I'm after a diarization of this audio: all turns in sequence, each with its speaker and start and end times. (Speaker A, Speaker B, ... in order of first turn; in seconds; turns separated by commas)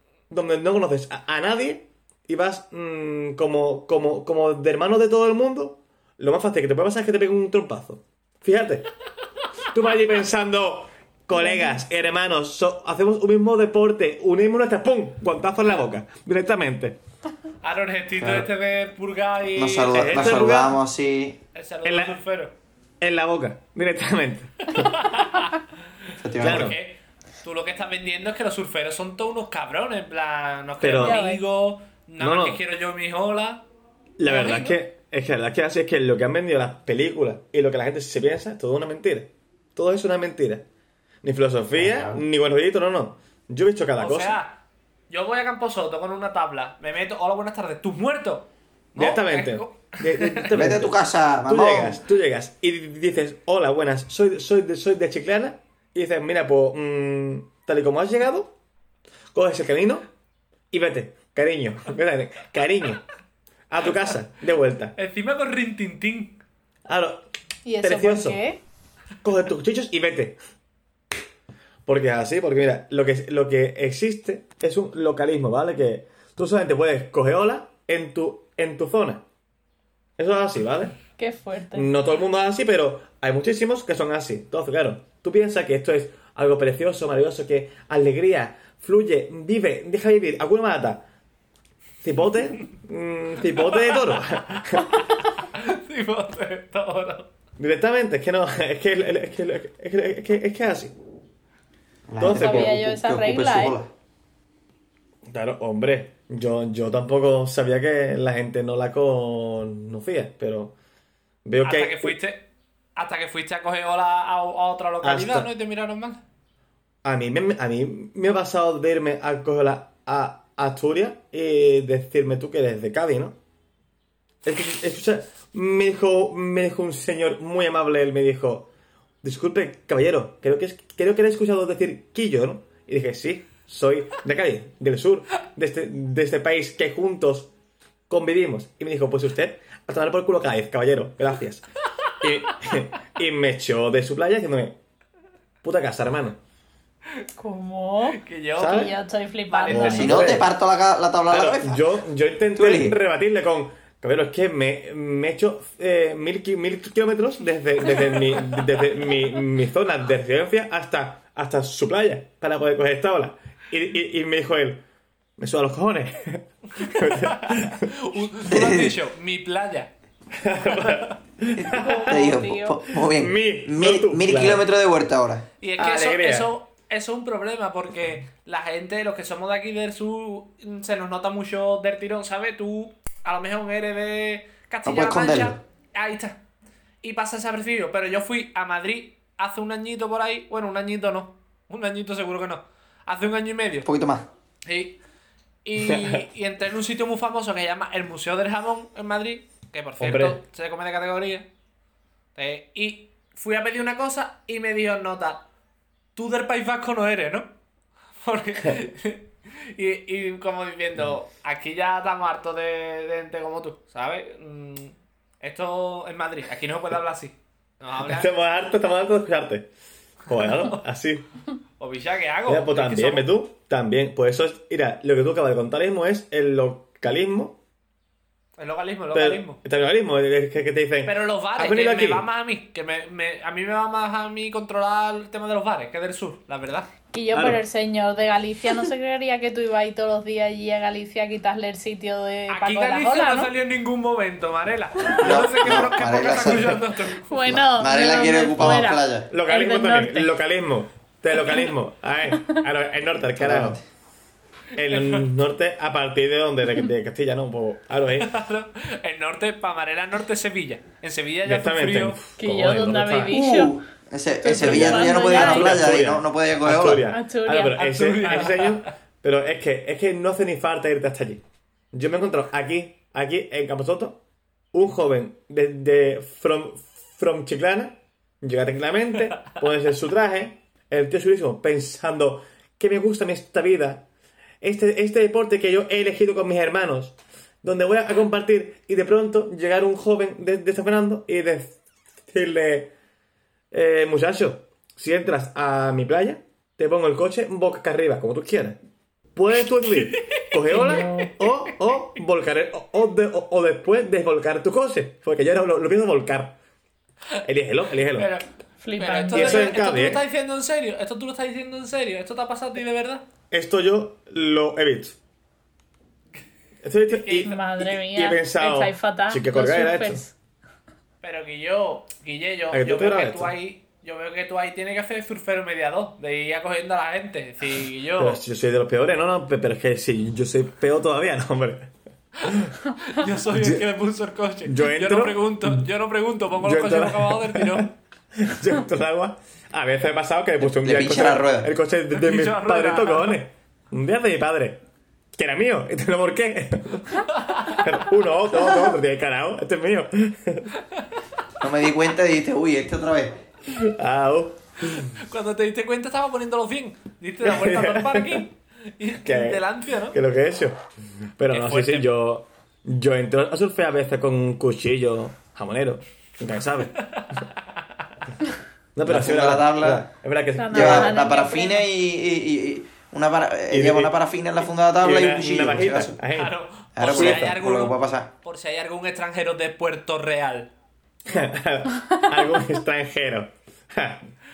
Speaker A: 0.3-8.9, Speaker A: 9.7-17.0, Speaker B: 11.4-11.8, Speaker C: 17.6-20.4, Speaker D: 18.2-18.5, Speaker D: 19.6-21.4, Speaker A: 19.9-20.8, Speaker C: 21.5-22.5, Speaker A: 21.8-22.2, Speaker A: 23.0-24.9, Speaker C: 24.7-25.6, Speaker D: 26.2-26.7, Speaker C: 26.4-33.6, Speaker A: 26.4-26.8, Speaker A: 30.8-31.2, Speaker B: 31.0-31.4, Speaker A: 32.2-32.6, Speaker A: 34.2-40.6, Speaker C: 34.3-34.7, Speaker A: 41.2-44.4, Speaker D: 41.7-42.2, Speaker C: 44.0-50.5, Speaker A: 49.0-58.5, Speaker D: 50.5-52.0, Speaker A: 59.3-60.0, Speaker A: 60.7-63.0, Speaker A: 63.7-64.9, Speaker C: 65.0-66.4, Speaker A: 66.8-67.2, Speaker B: 67.6-68.6, Speaker A: 67.8-68.4, Speaker A: 69.2-70.4, Speaker A: 71.8-79.2, Speaker A: 80.2-81.0, Speaker B: 81.2-81.9, Speaker A: 81.7-91.0, Speaker A: 92.0-95.0, Speaker C: 93.7-97.3, Speaker A: 97.6-100.9, Speaker D: 102.1-103.9, Speaker A: 102.2-102.8, Speaker B: 102.2-103.8, Speaker A: 105.3-110.7, Speaker A: 111.4-112.2, Speaker C: 111.6-116.2, Speaker A: 115.0-115.5, Speaker A: 117.0-123.4, Speaker A: 124.4-128.7, Speaker A: 129.2-137.5, Speaker A: 138.1-141.6, Speaker A: 142.2-144.8, Speaker A: 145.6-146.4, Speaker B: 147.4-150.3, Speaker C: 148.1-148.9, Speaker A: 148.6-148.9, Speaker C: 149.5-150.3, Speaker A: 149.7-150.5, Speaker D: 149.7-151.8, Speaker A: 151.3-164.8, Speaker D: 152.6-153.0, Speaker A: 165.4-167.9, Speaker C: 166.8-169.9, Speaker D: 168.5-169.0, Speaker A: 170.3-172.4, Speaker C: 170.7-171.2, Speaker D: 171.6-175.4, Speaker B: 171.7-172.8, Speaker A: 173.0-174.6, Speaker C: 175.6-186.4, Speaker A: 175.8-176.5, Speaker D: 184.8-185.6, Speaker C: 187.0-193.9, Speaker D: 193.8-194.3, Speaker C: 194.7-195.0, Speaker C: 195.6-201.5, Speaker A: 195.8-196.2, Speaker A: 200.0-200.4, Speaker C: 202.3-205.5, Speaker C: 206.2-207.5, Speaker C: 208.2-218.3, Speaker A: 218.0-219.7, Speaker A: 220.3-221.2, Speaker C: 221.8-223.3, Speaker A: 222.5-227.6, Speaker C: 228.6-229.6, Speaker A: 229.1-232.2, Speaker C: 231.0-236.9, Speaker B: 237.1-243.5, Speaker A: 237.3-237.6, Speaker C: 242.5-247.4, Speaker D: 245.2-246.8, Speaker B: 247.3-250.3, Speaker D: 247.5-249.3, Speaker A: 249.3-253.8, Speaker D: 253.4-253.8, Speaker A: 254.8-258.4, Speaker C: 254.8-255.3, Speaker C: 258.2-262.2, Speaker A: 261.4-263.4, Speaker B: 262.4-263.8, Speaker D: 263.3-267.0, Speaker B: 264.4-266.0, Speaker A: 264.5-274.2, Speaker B: 267.1-268.6, Speaker C: 267.7-268.9, Speaker A: 274.7-284.1, Speaker A: 284.6-292.9, Speaker A: 293.7-298.8, Speaker A: 299.3-306.6, Speaker C: 300.0-300.5, Speaker B: 300.6-301.3, Speaker A: 307.4-308.3, Speaker C: 308.1-313.2, Speaker B: 308.8-309.7, Speaker A: 309.3-310.2, Speaker A: 313.5-315.2, Speaker A: 316.8-320.2, Speaker C: 317.1-317.5, Speaker B: 317.4-320.3, Speaker C: 321.2-328.4, Speaker A: 322.7-323.5, Speaker A: 328.1-331.9, Speaker A: 332.4-332.7, Speaker C: 333.0-337.9, Speaker A: 333.5-333.8, Speaker A: 334.6-335.9, Speaker A: 336.6-344.8, Speaker D: 340.6-341.7, Speaker C: 342.1-343.4, Speaker A: 345.3-350.7, Speaker C: 347.3-347.9, Speaker D: 351.6-353.4, Speaker A: 353.6-355.1, Speaker C: 355.2-360.2, Speaker A: 357.4-358.4, Speaker A: 359.2-360.8, Speaker A: 361.4-366.9, Speaker C: 361.5-362.1, Speaker C: 367.0-368.0, Speaker A: 368.9-371.2, Speaker D: 369.0-370.1, Speaker B: 370.6-371.9, Speaker D: 370.7-376.2, Speaker A: 373.7-374.1, Speaker A: 375.0-377.6, Speaker C: 376.3-380.7, Speaker D: 376.9-378.3, Speaker A: 381.2-384.3